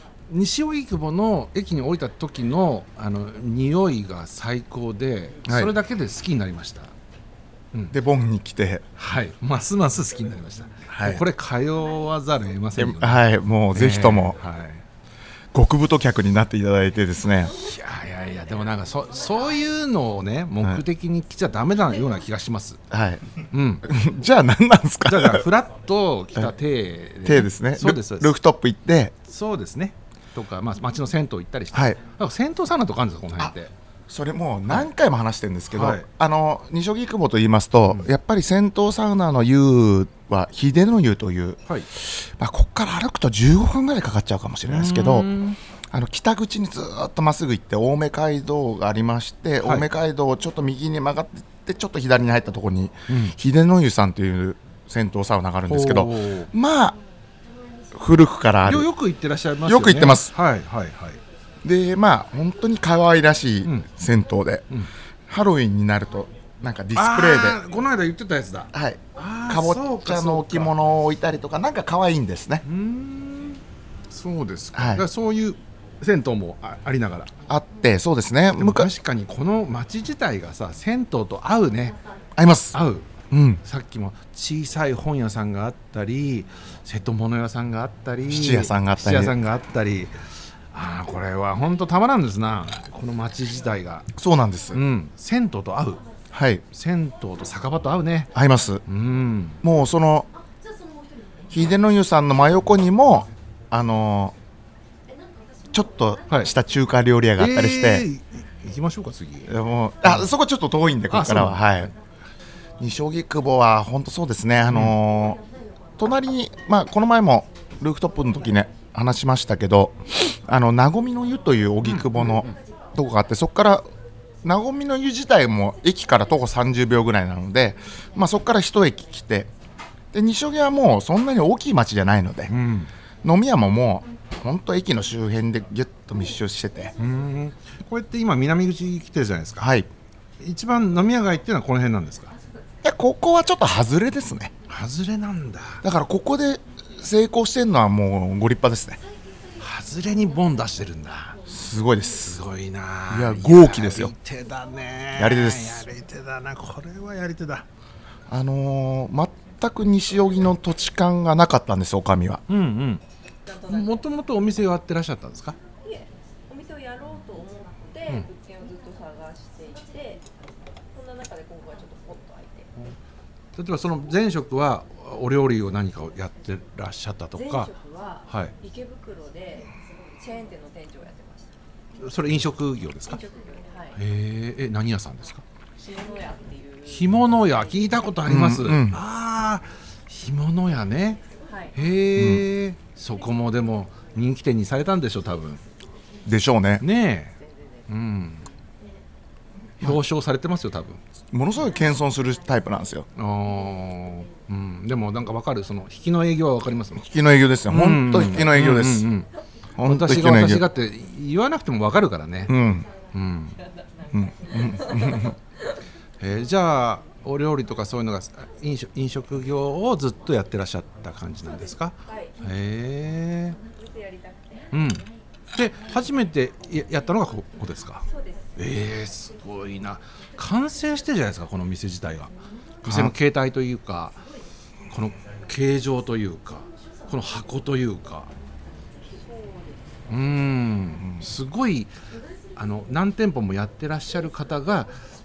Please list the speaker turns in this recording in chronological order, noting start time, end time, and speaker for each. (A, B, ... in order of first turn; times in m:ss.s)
0:00.3-0:06.9 A
0:05.4-0:05.7 B
0:07.9-0:08.8 B
0:09.0-0:14.8 A
0:10.9-0:11.2 B
0:12.8-0:14.4 B
0:15.5-0:17.5 B
0:17.5-0:22.8 A
0:22.9-0:23.2 B
0:23.5-0:23.9 A
0:23.8-0:25.4 B
0:25.1-0:28.4 A
0:27.2-0:29.1 B
0:29.2-0:33.7 A
0:31.7-0:32.0 B
0:34.1-0:45.3 B
0:35.7-0:36.1 A
0:44.6-0:45.6 A
0:45.9-0:57.0 B
0:49.6-0:49.9 A
0:53.1-0:53.4 A
0:55.6-0:56.5 A
0:57.9-0:58.9 B
0:58.6-1:01.2 A
0:59.6-1:00.3 B
1:01.6-1:04.7 B
1:05.3-1:07.6 B
1:06.9-1:10.7 A
1:08.7-1:12.6 B
1:12.6-1:17.3 A
1:14.7-1:15.0 B
1:17.5-1:18.9 B
1:18.5-1:22.0 A
1:22.4-1:22.8 B
1:22.7-1:34.1 A
1:23.3-1:23.6 B
1:28.3-1:29.3 B
1:34.2-1:34.8 B
1:34.7-1:36.0 A
1:36.3-1:36.6 B
1:36.7-1:38.3 A
1:38.3-1:38.8 B
1:38.8-1:39.6 A
1:39.6-1:40.3 B
1:41.5-1:44.3 B
1:45.7-1:48.0 B
1:47.4-1:50.3 A
1:49.5-1:51.9 B
1:51.1-1:51.8 A
1:52.8-1:55.4 B
1:54.7-1:54.9 A
1:56.0-2:03.8 B
2:01.8-2:02.6 A
2:04.4-2:09.5 B
2:10.1-2:12.5 B
2:12.5-2:12.9 A
2:13.2-2:16.9 B
2:17.0-2:19.7 A
2:19.6-2:19.9 B
2:20.4-2:22.3 A
2:22.8-2:24.5 B
2:24.7-2:25.8 A
2:25.8-2:29.0 B
2:29.6-2:31.4 A
2:31.5-2:32.4 B
2:32.2-2:37.6 A
2:33.1-2:34.1 B
2:35.2-2:35.8 B
2:38.3-2:42.4 B
2:42.5-2:43.0 A
2:43.4-2:44.1 C
2:43.6-2:45.6 A
2:45.8-2:50.3 C
2:50.9-2:52.7 C
2:53.6-2:57.7 A
2:57.4-3:01.5 C
2:58.3-2:58.5 A
3:02.0-3:03.2 A
3:03.1-3:04.0 C
3:03.9-3:05.4 A
3:05.8-3:07.1 C
3:06.8-3:15.6 A
3:08.2-3:09.0 B
3:11.4-3:11.7 C
3:12.2-3:12.4 B
3:16.2-3:16.8 B
3:16.8-3:17.4 A
3:17.4-3:17.8 C
3:17.9-3:18.4 A
3:19.8-3:21.0 A
3:21.3-3:23.1 B
3:23.2-3:27.0 A
3:27.0-3:29.1 B
3:27.7-3:29.3 A
3:29.8-3:30.6 B
3:29.8-3:32.6 A
3:32.5-3:32.9 B
3:33.1-3:33.6 A
3:34.1-3:35.3 B
3:34.6-3:35.3 C
3:36.2-3:43.6 A
3:41.4-3:42.5 C
3:43.6-3:44.7 C
3:44.7-3:48.0 A
3:48.1-3:48.5 C
3:48.6-3:54.2 A
3:52.8-3:53.1 B
3:54.9-3:58.3 A
3:59.1-4:00.0 C
4:00.1-4:01.9 A
4:02.5-4:05.0 A